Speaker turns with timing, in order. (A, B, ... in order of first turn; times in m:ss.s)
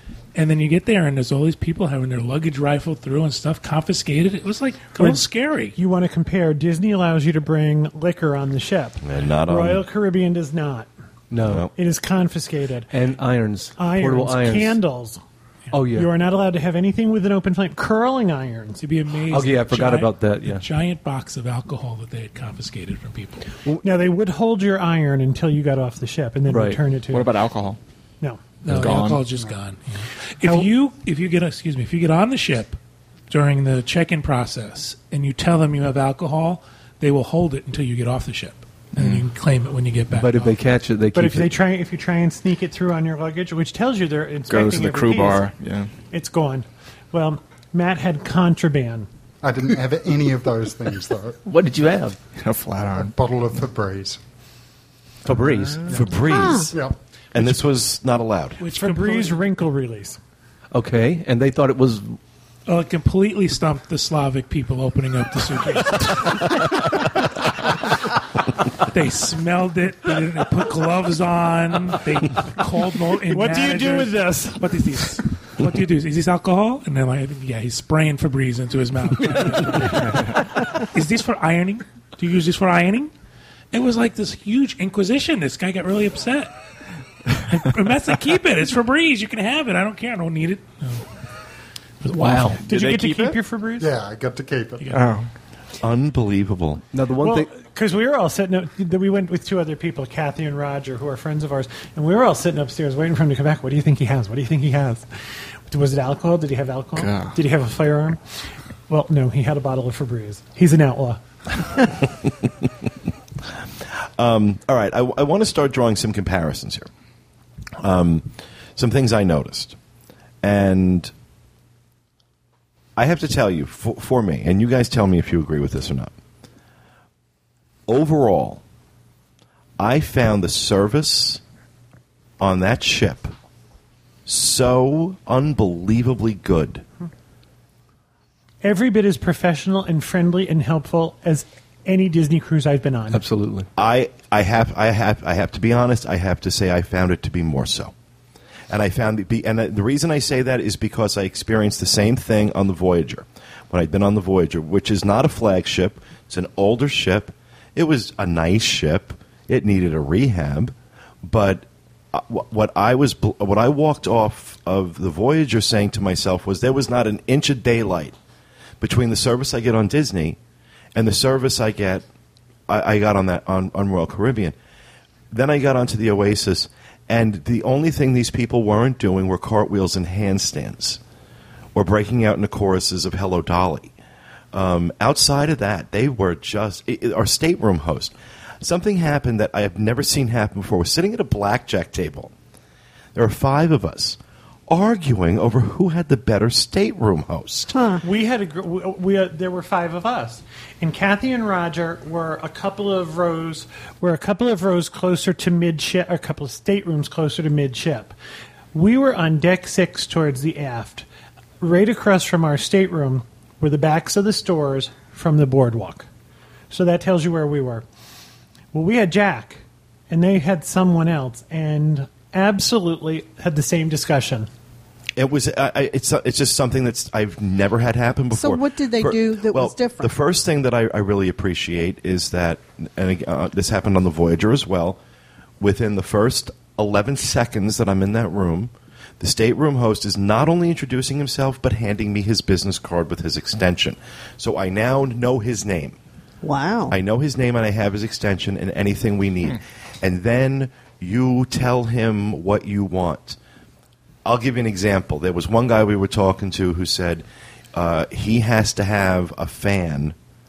0:00.3-0:05.8 A
0:05.0-0:10.9 B
0:09.0-0:09.8 C
0:11.3-0:11.7 D
0:11.5-0:11.7 C
0:11.7-0:12.9 B
0:12.9-0:14.8 D
0:13.8-0:18.8 B
0:15.7-0:16.1 D
0:18.8-0:23.5 A
0:19.3-0:20.7 D
0:23.8-0:27.3 B
0:26.5-0:26.8 D
0:27.1-0:27.8 E
0:28.6-0:32.8 A
0:28.7-0:29.2 E
0:30.4-0:30.7 B
0:33.3-0:40.6 A
0:39.0-0:39.2 E
0:40.1-0:41.5 D
0:41.1-0:45.5 B
0:44.5-0:45.9 E
0:46.1-0:49.1 B
0:49.4-0:51.4 F
0:51.4-0:52.2 D
0:52.4-0:53.2 E
0:53.0-0:54.2 F
0:55.2-0:56.0 D
0:55.6-0:56.0 E
0:55.9-0:56.8 C
0:56.2-0:56.7 G
0:56.7-0:57.0 F
0:57.3-0:58.6 C
0:58.6-0:59.5 A
0:58.7-1:00.2 B
1:00.7-1:02.2 D
1:02.7-1:07.1 A
1:08.8-1:23.1 A
1:13.3-1:15.2 B
1:23.7-1:26.5 A
1:27.4-1:31.1 A
1:32.0-1:32.6 A
1:32.2-1:32.6 D
1:32.6-1:33.4 E
1:32.7-1:33.9 B
1:33.8-1:35.0 F
1:34.9-1:35.3 E
1:35.8-1:36.8 C
1:36.9-1:37.5 D
1:37.2-1:45.1 B
1:45.7-1:48.2 B
1:47.0-1:47.4 E
1:48.9-1:51.2 B
1:54.2-1:56.9 C
1:57.8-1:59.8 C
2:00.4-2:01.1 C
2:03.0-2:06.1 C
2:07.9-2:08.6 C
2:09.8-2:11.4 C
2:12.4-2:13.3 C
2:14.3-2:16.8 C
2:18.6-2:23.2 B
2:23.1-2:23.7 D
2:23.8-2:27.9 C
2:28.7-2:48.2 C
2:48.8-2:50.4 C
2:51.0-2:52.0 C
2:52.7-2:54.6 C
2:55.3-3:01.0 C
3:01.8-3:03.9 C
3:04.5-3:12.3 C
3:13.2-3:17.7 C
3:17.7-3:18.0 G
3:18.0-3:28.1 B
3:28.7-3:31.1 B
3:31.6-3:36.1 B
3:36.7-3:37.8 B
3:38.7-3:44.5 B
3:45.2-3:55.0 C
3:48.3-3:50.1 G
3:55.6-4:06.0 C
4:06.4-4:07.0 G
4:06.9-4:13.4 C
4:14.2-4:20.2 C